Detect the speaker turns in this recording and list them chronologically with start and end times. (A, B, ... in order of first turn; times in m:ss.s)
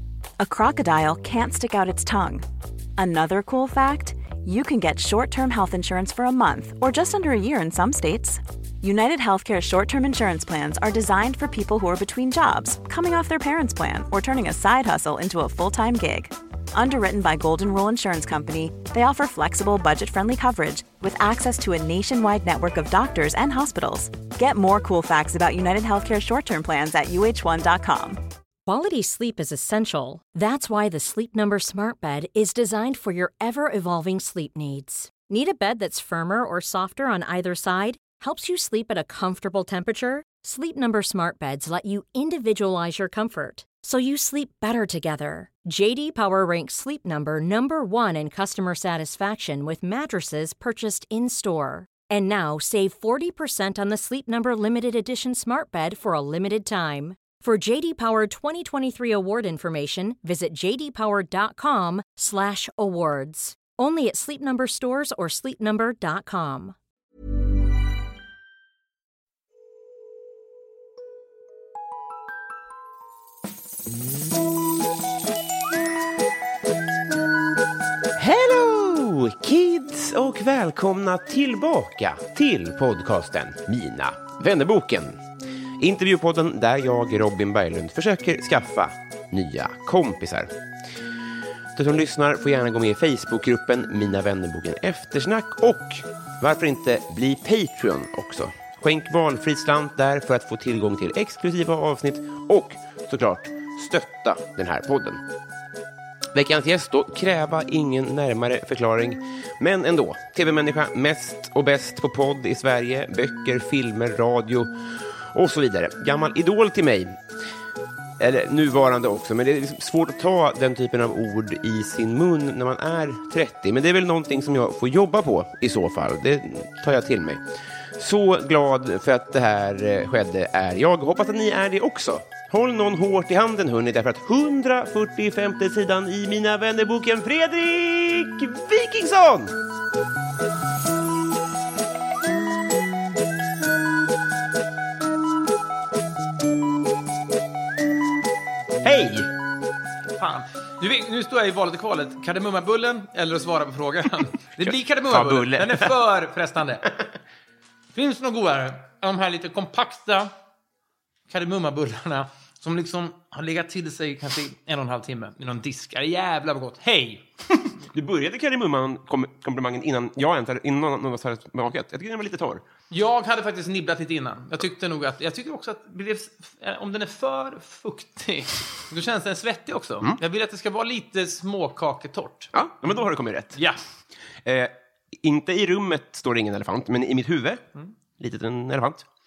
0:00.4-0:02.4 A
0:03.0-0:28.2 A
0:28.6-1:06.8 B
1:18.2-1:25.2 C
1:25.8-1:30.5 C
1:31.7-1:45.2 C
1:46.3-1:57.2 C
1:58.2-2:19.6 C
2:28.8-2:29.3 C
2:30.2-2:36.8 D
2:34.6-2:35.9 C
2:37.9-2:40.3 D
2:41.3-2:47.2 D
2:47.9-2:52.6 C
2:52.9-3:02.5 D
3:02.5-3:03.6 C
3:03.5-3:03.8 D
3:04.4-3:07.6 C
3:08.2-3:09.1 C